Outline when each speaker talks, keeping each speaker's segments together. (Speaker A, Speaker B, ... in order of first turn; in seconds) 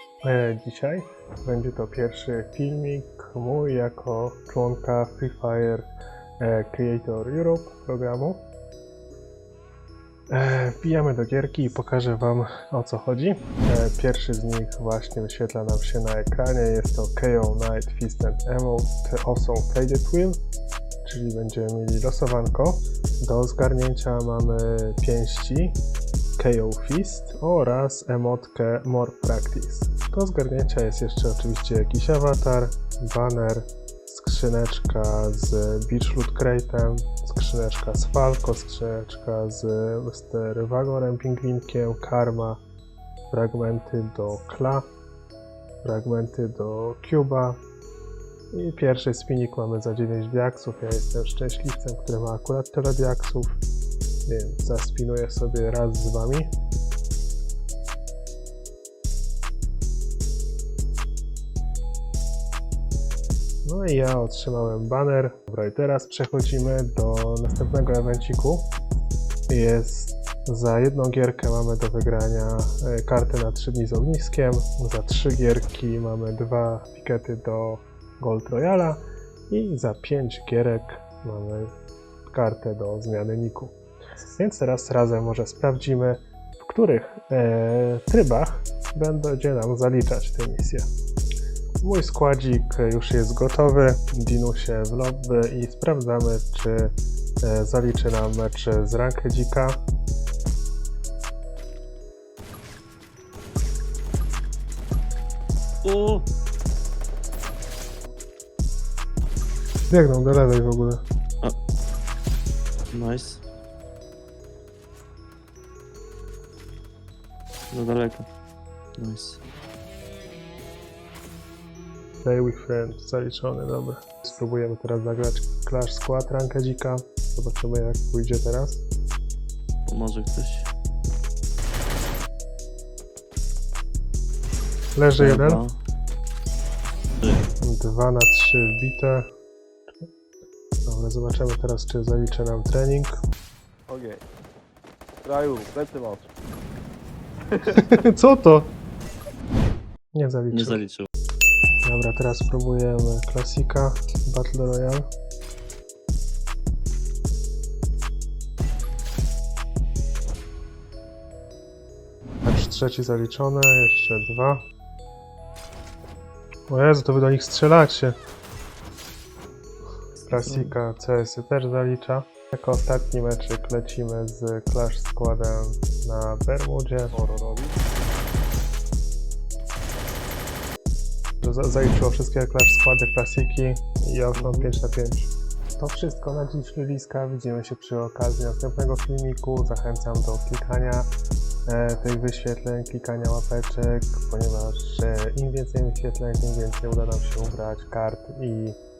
Speaker A: 0.2-8.5, 10.3-20.4, 21.0-25.7, 26.4-42.6, 43.3-44.9, 45.8-47.6, 48.5-53.6, 54.3-56.5, 63.6-68.7, 69.5-81.7, 82.3-90.9, 91.8-99.8, 109.9-111.0, 122.2-128.8, 134.9-135.6, 137.6-139.3, 140.9-143.2, 147.7-148.7, 150.1-150.8, 151.8-155.1, 162.4-164.6, 166.7-168.2, 170.3-177.2, 181.4-191.1, 191.7-198.8
Speaker B: 105.8-106.3, 112.9-113.4, 117.7-118.3, 119.0-119.4, 129.9-130.7, 135.2-135.8, 137.2-137.4, 150.5-151.1, 170.2-170.8, 184.3-184.7
Speaker C: 143.9-144.2, 145.2-146.3, 147.5-147.9, 177.1-177.8